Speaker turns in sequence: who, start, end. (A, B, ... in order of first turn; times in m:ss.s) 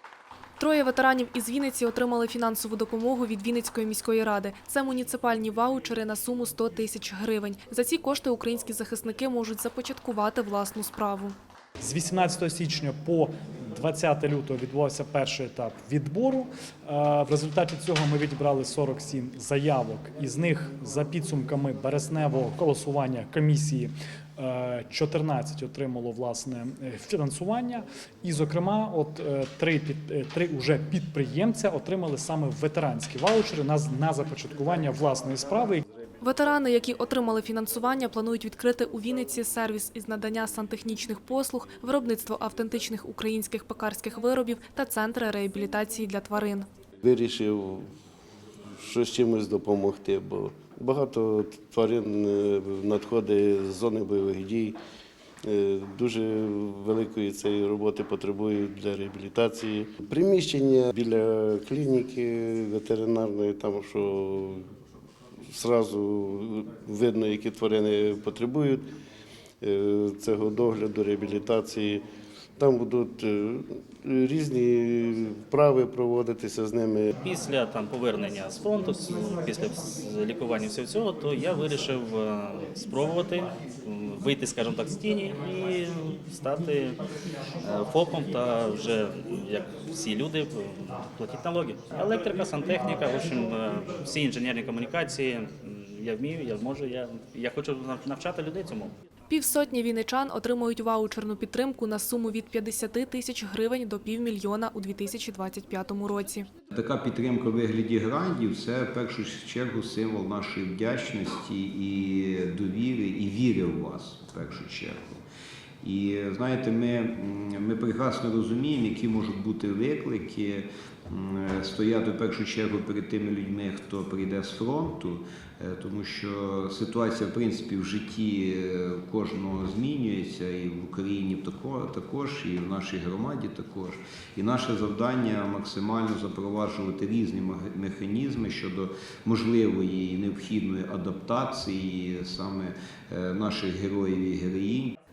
0:00.6-0:11.3 A
0:11.8-0:35.8 B
0:36.2-0:46.7 A
0:47.0-0:47.9 C
0:48.8-0:54.8 C
0:55.4-1:04.6 C
1:05.5-1:08.9 C
1:09.6-1:12.0 C
1:12.6-1:17.1 C
1:17.2-1:27.0 D
1:27.6-1:38.9 D
1:39.3-1:46.5 A
1:46.7-1:55.2 E
1:55.8-2:24.9 E